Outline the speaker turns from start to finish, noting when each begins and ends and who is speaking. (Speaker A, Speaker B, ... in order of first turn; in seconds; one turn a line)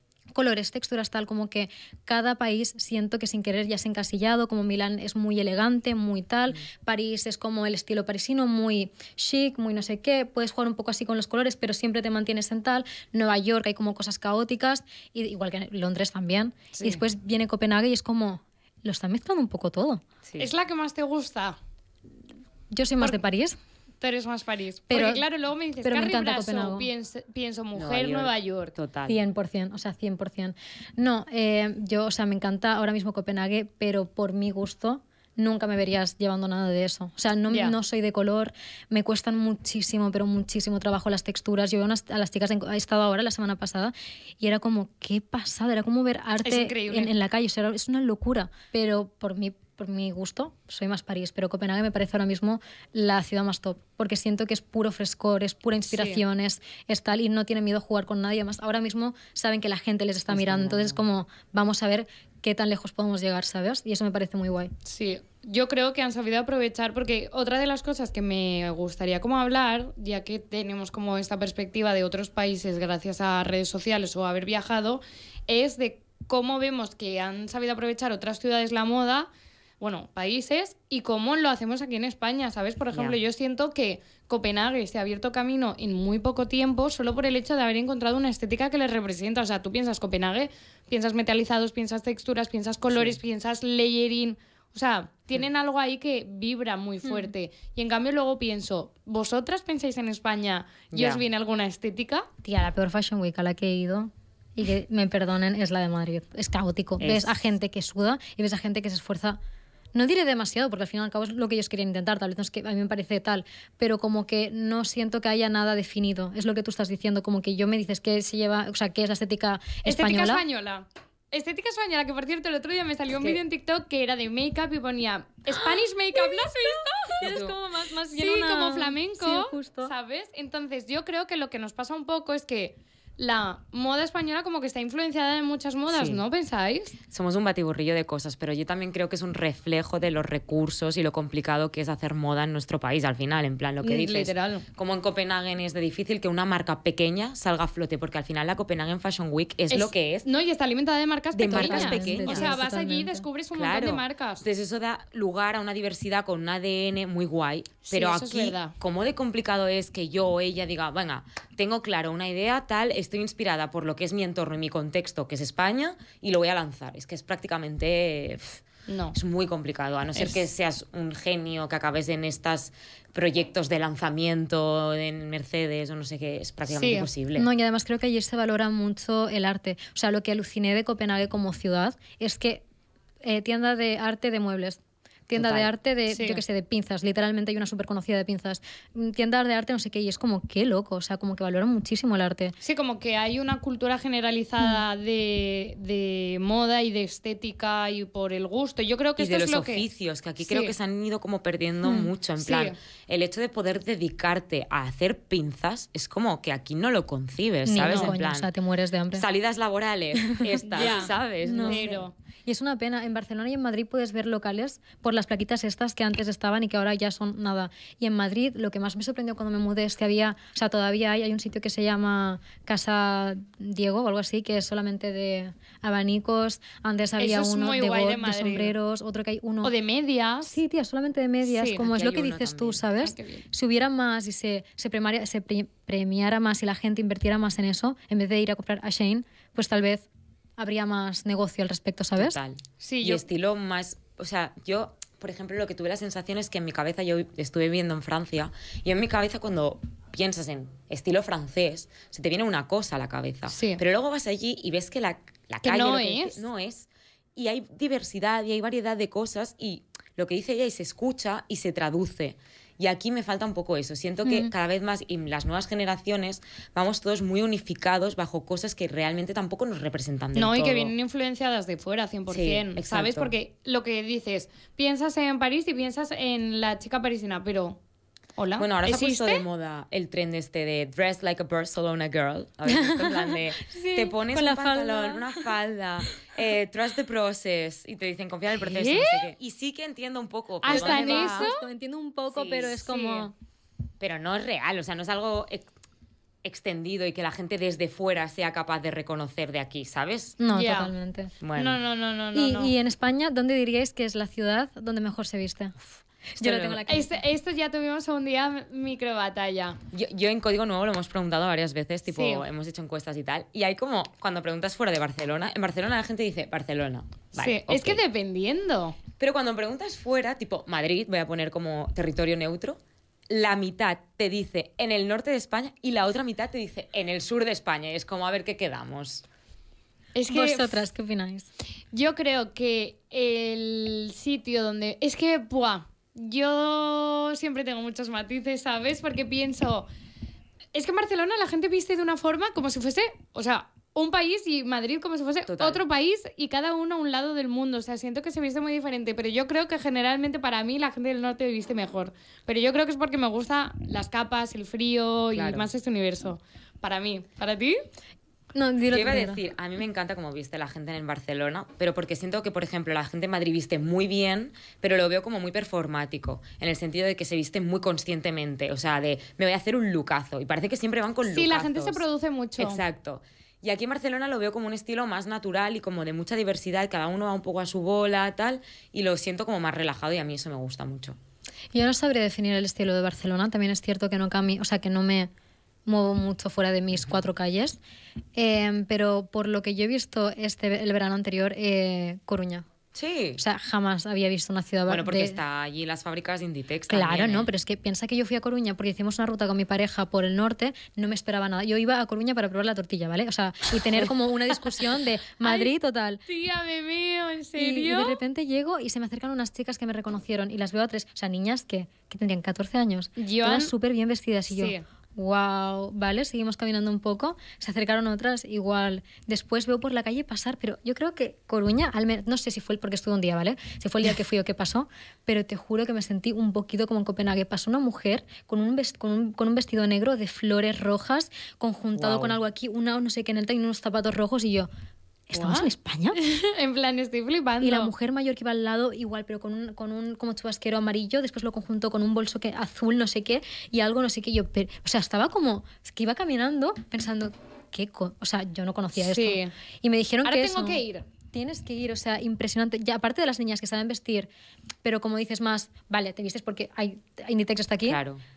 Speaker A: 0.3-20.0
Speaker B: 16.8-17.0
Speaker C: 20.2-20.5
Speaker B: 20.4-21.6
Speaker A: 22.7-23.6
Speaker B: 24.0-28.7
Speaker A: 24.9-25.2
Speaker A: 25.8-26.9
Speaker C: 27.7-29.2
Speaker A: 29.1-64.7
Speaker B: 37.5-37.8
Speaker B: 46.4-47.1
Speaker B: 55.9-56.2
Speaker C: 60.3-61.0
Speaker B: 64.8-102.3
Speaker C: 82.9-83.2
Speaker C: 92.9-93.2
Speaker C: 100.9-101.2
Speaker A: 102.4-109.4
Speaker C: 107.0-107.3
Speaker A: 109.9-120.4
Speaker B: 119.8-127.3
Speaker A: 126.1-129.9
Speaker C: 127.2-127.6
Speaker B: 128.1-136.9
Speaker C: 135.9-136.2
Speaker C: 137.1-150.2
Speaker B: 143.8-144.6
Speaker B: 149.7-154.4
Speaker C: 151.3-152.5
Speaker A: 151.5-153.3
Speaker C: 153.5-177.5
Speaker B: 157.9-158.7
Speaker B: 168.9-169.1
Speaker B: 176.7-177.1
Speaker A: 177.3-182.6
Speaker A: 183.2-192.6
Speaker C: 185.3-185.7
Speaker B: 186.1-186.4
Speaker B: 192.6-199.8
Speaker C: 199.2-208.5
Speaker B: 200.4-200.7
Speaker B: 202.4-202.7
Speaker A: 207.7-209.2
Speaker B: 207.9-208.1
Speaker C: 209.1-212.0
Speaker A: 210.3-229.7
Speaker B: 210.7-212.1
Speaker B: 227.2-228.7
Speaker B: 229.6-230.6
Speaker A: 230.4-240.1
Speaker B: 231.5-231.9
Speaker C: 231.8-232.8
Speaker B: 233.0-233.4
Speaker A: 240.6-242.4
Speaker C: 242.2-270.9
Speaker B: 242.8-243.2
Speaker B: 253.5-253.8
Speaker B: 255.6-256.4
Speaker A: 264.2-264.5
Speaker B: 270.4-277.8
Speaker C: 272.3-273.3
Speaker B: 278.4-279.4
Speaker C: 278.6-291.5
Speaker A: 282.7-285.4
Speaker B: 288.5-289.3
Speaker B: 290.6-291.7
Speaker A: 290.7-293.3
Speaker B: 292.3-293.3
Speaker C: 294.0-295.7
Speaker C: 296.4-300.4
Speaker A: 300.4-301.3
Speaker B: 300.5-300.9
Speaker C: 301.4-301.8
Speaker B: 301.6-302.7
Speaker A: 302.3-305.8
Speaker A: 306.4-307.2
Speaker C: 306.4-306.8
Speaker B: 306.9-309.8
Speaker C: 309.9-318.0
Speaker B: 312.1-312.4
Speaker B: 317.4-319.0
Speaker C: 319.2-322.8
Speaker C: 323.3-329.2
Speaker B: 330.1-330.8
Speaker A: 330.3-331.5
Speaker B: 331.9-339.9
Speaker B: 340.7-357.8
Speaker C: 345.5-345.8
Speaker C: 355.3-355.7
Speaker A: 358.5-359.4
Speaker C: 358.9-372.0
Speaker B: 371.2-372.8
Speaker C: 372.6-381.2
Speaker A: 381.7-385.3
Speaker A: 385.9-387.8
Speaker A: 388.3-392.6
Speaker C: 392.9-393.4
Speaker A: 393.4-395.4
Speaker C: 394.9-397.5
Speaker A: 396.9-406.2
Speaker B: 405.4-405.7
Speaker B: 406.3-408.2
Speaker A: 407.6-434.7
Speaker B: 413.2-413.7
Speaker B: 414.5-414.8
Speaker C: 431.9-432.4
Speaker A: 435.3-436.2
Speaker B: 435.3-437.9
Speaker A: 437.6-454.3
Speaker B: 449.0-449.5
Speaker B: 450.2-451.0
Speaker A: 454.8-458.0
Speaker C: 457.9-458.2